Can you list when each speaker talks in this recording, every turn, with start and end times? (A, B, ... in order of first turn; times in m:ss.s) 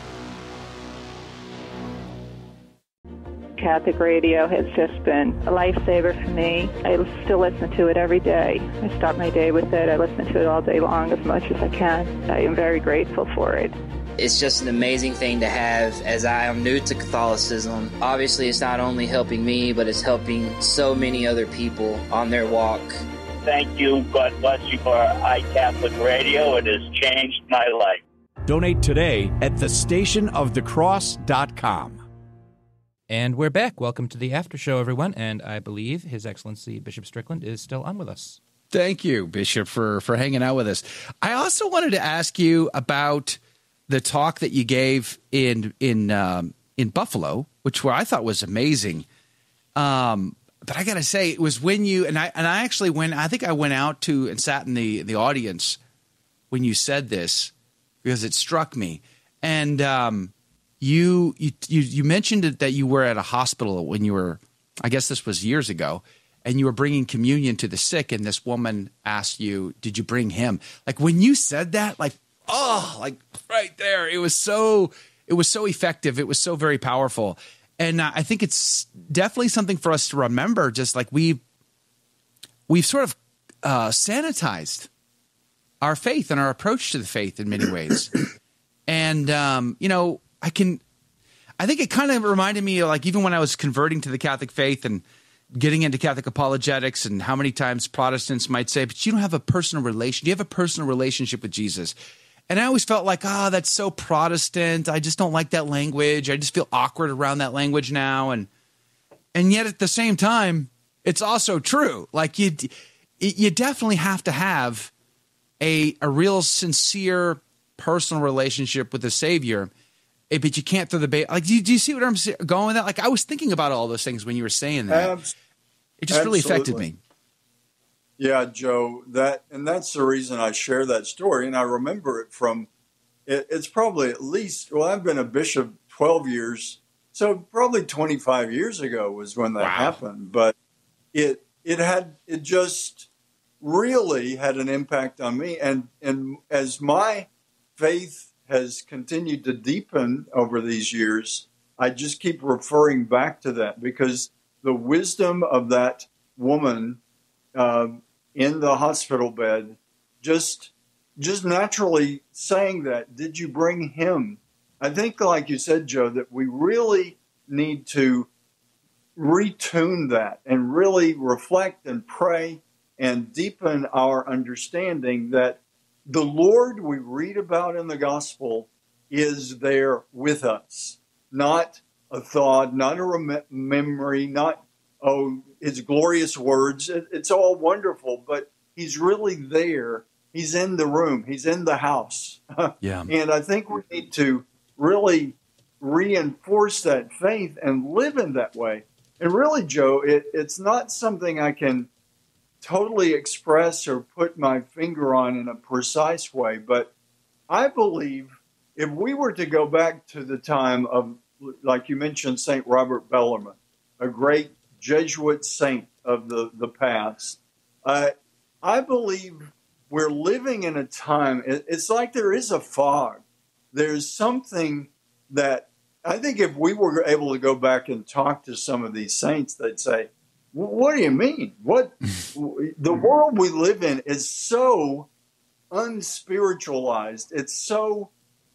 0:03.6-0:13.8 A
0:14.2-0:22.9 B
0:23.4-0:28.0 C
0:28.5-0:32.0 D
0:33.1-0:38.4 E
0:38.7-0:49.1 F
0:49.8-0:55.8 F
0:56.5-0:57.5 F
0:58.0-1:21.4 F
1:22.7-1:24.9 F
1:25.8-1:28.2 F
1:28.9-1:30.8 F
1:31.6-1:35.0 F
1:35.6-1:41.9 F
1:42.5-1:48.5 F
1:49.3-1:54.9 F
1:55.6-1:59.7 F
2:00.3-2:05.1 F
2:04.9-2:05.3 G
2:06.0-2:07.0 F
2:06.1-2:06.8 G
2:08.2-2:12.7 G
2:13.3-2:20.5 G
2:19.6-2:20.0 F
2:21.1-2:23.1 G
2:23.6-2:37.0 G
2:37.6-2:48.3 G
2:49.2-3:21.9 G
3:12.8-3:13.1 F
3:22.6-3:26.9 G
3:27.5-3:55.1 G
3:55.7-3:58.1 G